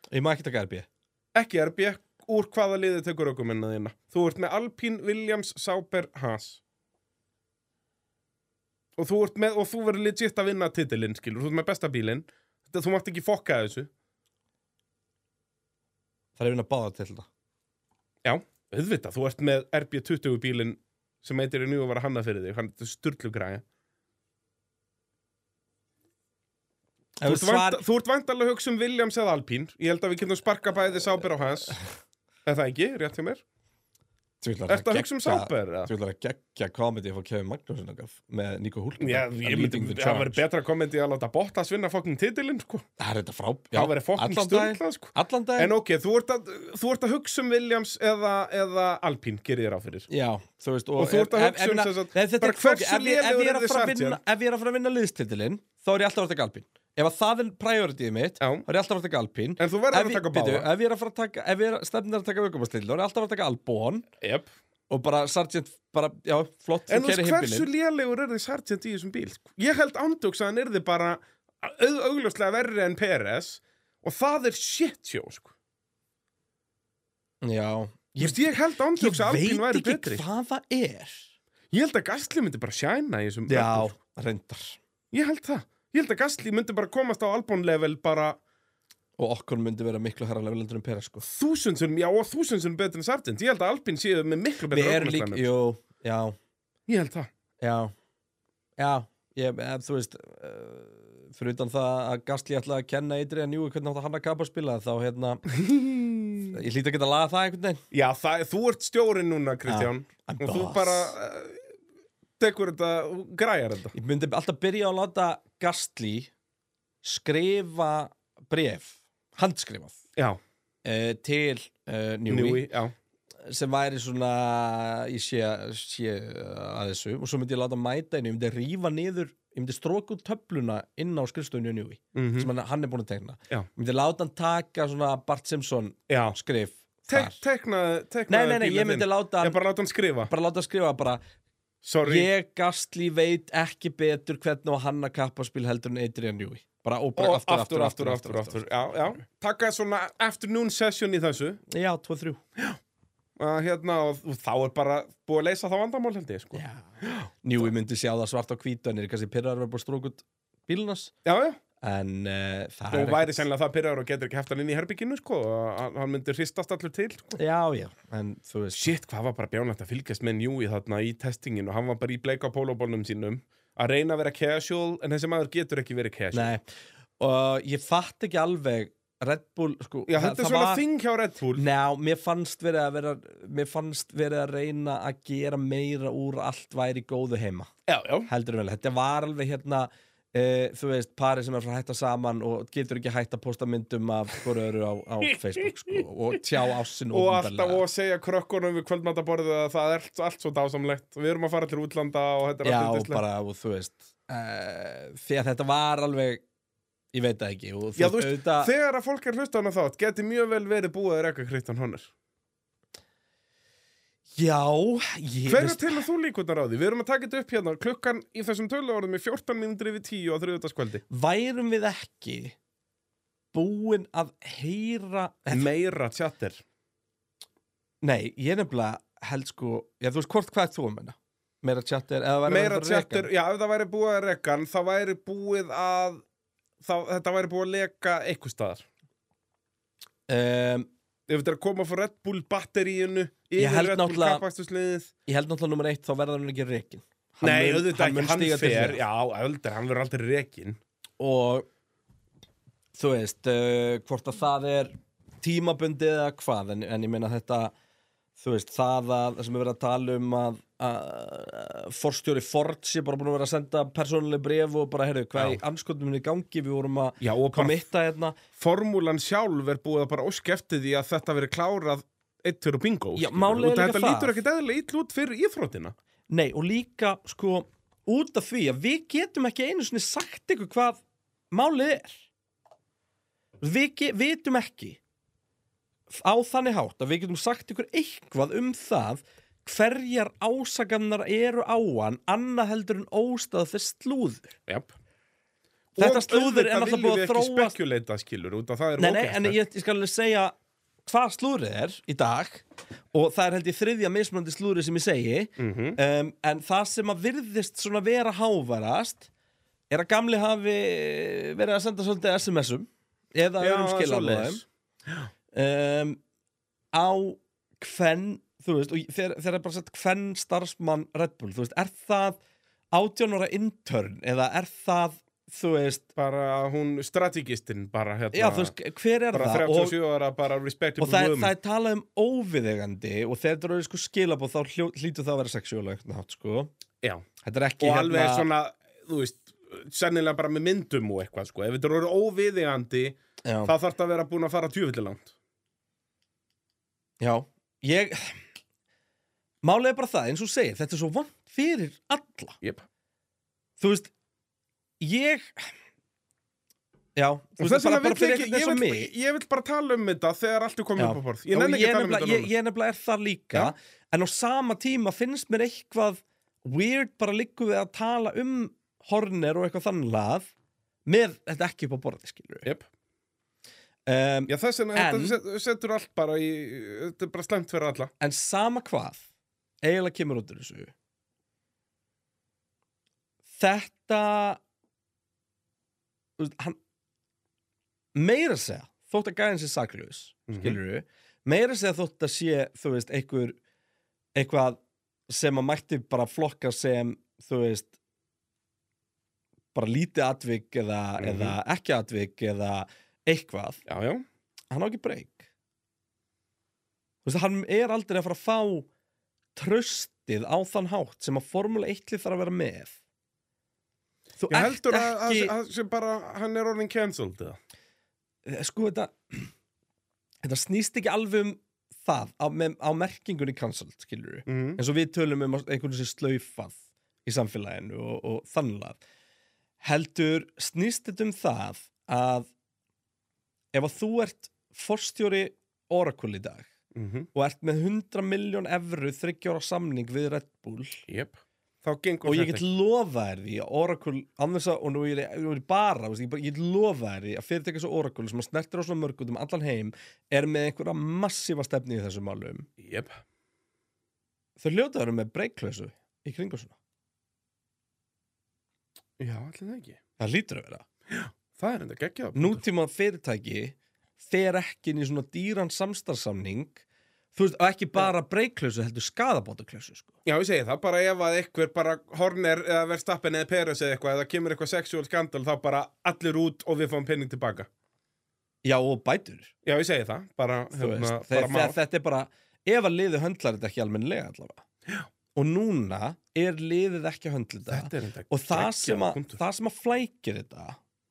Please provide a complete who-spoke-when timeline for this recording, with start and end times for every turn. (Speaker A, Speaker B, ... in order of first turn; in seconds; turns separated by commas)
Speaker A: 0.1-0.9, Speaker B: 1.4-6.6, Speaker B: 9.0-13.9, Speaker A: 16.4-17.3, Speaker B: 18.2-23.6, Speaker A: 27.2-27.8, Speaker B: 27.2-31.8, Speaker B: 32.5-33.4, Speaker A: 34.4-40.4, Speaker B: 34.7-35.9, Speaker B: 39.0-42.9, Speaker A: 43.0-45.7, Speaker B: 43.7-50.1, Speaker A: 50.1-64.1, Speaker B: 51.0-54.2, Speaker B: 58.4-58.6, Speaker B: 59.6-60.7, Speaker B: 64.2-64.5, Speaker A: 64.9-67.7, Speaker B: 66.9-75.5, Speaker A: 77.4-81.3, Speaker B: 78.2-80.2, Speaker B: 81.7-83.9, Speaker A: 83.5-84.8, Speaker B: 85.1-88.4, Speaker A: 89.2-91.3, Speaker B: 91.3-95.5, Speaker A: 94.7-96.4, Speaker B: 96.9-97.3, Speaker A: 97.6-97.9, Speaker A: 98.8-105.5, Speaker B: 105.5-106.6, Speaker A: 106.5-107.8, Speaker B: 107.9-111.7, Speaker A: 109.7-111.1, Speaker B: 112.4-113.9, Speaker A: 113.9-116.3, Speaker A: 117.0-120.0, Speaker A: 120.8-122.7, Speaker B: 122.3-122.9, Speaker A: 123.5-137.4, Speaker B: 132.2-132.5, Speaker B: 136.1-136.4, Speaker B: 137.1-140.3, Speaker A: 138.3-139.6, Speaker A: 140.3-141.2, Speaker B: 141.8-142.3, Speaker A: 142.0-148.7, Speaker B: 147.2-151.6, Speaker A: 151.7-152.4, Speaker B: 153.4-157.7, Speaker A: 156.5-161.1, Speaker B: 161.2-161.6, Speaker A: 161.8-163.5, Speaker B: 162.9-167.4, Speaker A: 167.4-168.9, Speaker B: 168.7-176.5, Speaker A: 176.3-176.7, Speaker A: 177.2-180.8, Speaker B: 180.1-181.6, Speaker A: 181.6-187.7, Speaker B: 187.9-188.3, Speaker A: 188.3-197.8, Speaker B: 195.3-196.0, Speaker B: 197.1-203.2, Speaker A: 202.6-206.4, Speaker A: 207.1-208.7, Speaker B: 208.0-212.1, Speaker A: 214.4-216.0, Speaker B: 215.5-221.0, Speaker A: 221.1-222.6, Speaker A: 223.5-225.7, Speaker B: 225.5-226.6, Speaker A: 228.0-233.3, Speaker B: 232.5-236.2, Speaker B: 236.8-238.9, Speaker A: 240.3-240.9, Speaker B: 241.3-245.1, Speaker A: 243.6-244.4, Speaker A: 245.3-249.0, Speaker B: 247.4-250.8, Speaker A: 251.2-251.7, Speaker A: 252.9-257.7, Speaker A: 258.4-268.4, Speaker B: 265.4-265.6, Speaker B: 267.2-267.8, Speaker B: 268.6-275.9, Speaker A: 273.2-274.4, Speaker A: 276.3-281.0, Speaker A: 281.5-282.2, Speaker A: 283.6-285.0, Speaker A: 286.1-294.6, Speaker A: 296.0-297.8, Speaker B: 296.0-299.6, Speaker A: 299.0-300.5, Speaker A: 301.1-309.3, Speaker B: 305.6-306.0, Speaker A: 309.9-314.6, Speaker B: 313.6-315.3, Speaker A: 315.5-316.2, Speaker A: 316.9-322.4, Speaker A: 322.9-326.1, Speaker B: 326.2-328.7, Speaker A: 328.3-330.0, Speaker B: 329.3-331.5, Speaker A: 331.0-336.7, Speaker A: 337.4-338.5, Speaker B: 337.8-345.3, Speaker A: 343.4-343.7, Speaker A: 347.2-348.4, Speaker A: 349.6-352.6, Speaker A: 353.8-354.1, Speaker A: 355.0-355.7, Speaker A: 357.2-359.1, Speaker B: 357.6-362.5, Speaker A: 361.0-370.5, Speaker A: 371.1-372.7, Speaker A: 374.1-375.4, Speaker B: 374.5-378.1, Speaker A: 378.2-379.2, Speaker A: 379.8-380.9, Speaker A: 383.6-384.6, Speaker A: 386.4-386.8, Speaker A: 388.1-393.6, Speaker B: 390.5-390.8, Speaker A: 394.4-397.9, Speaker A: 399.7-403.8, Speaker B: 401.2-401.6, Speaker B: 403.9-404.2, Speaker A: 404.7-405.5, Speaker A: 407.2-408.9, Speaker A: 409.6-412.9, Speaker A: 414.4-415.5, Speaker B: 414.5-417.6, Speaker A: 418.4-419.5, Speaker A: 420.4-429.0, Speaker B: 424.5-424.8, Speaker A: 429.8-432.5, Speaker A: 433.7-436.7, Speaker B: 436.9-437.3, Speaker A: 437.3-441.1, Speaker B: 441.1-442.6, Speaker A: 442.2-452.7, Speaker B: 452.8-453.2, Speaker A: 454.6-456.8, Speaker B: 459.2-460.0, Speaker A: 460.2-460.9, Speaker B: 461.1-462.6, Speaker A: 462.4-466.8, Speaker A: 467.3-470.1, Speaker B: 470.2-477.7, Speaker A: 478.6-479.5, Speaker B: 479.6-481.8, Speaker A: 480.7-484.6, Speaker A: 485.4-490.8, Speaker B: 487.7-489.4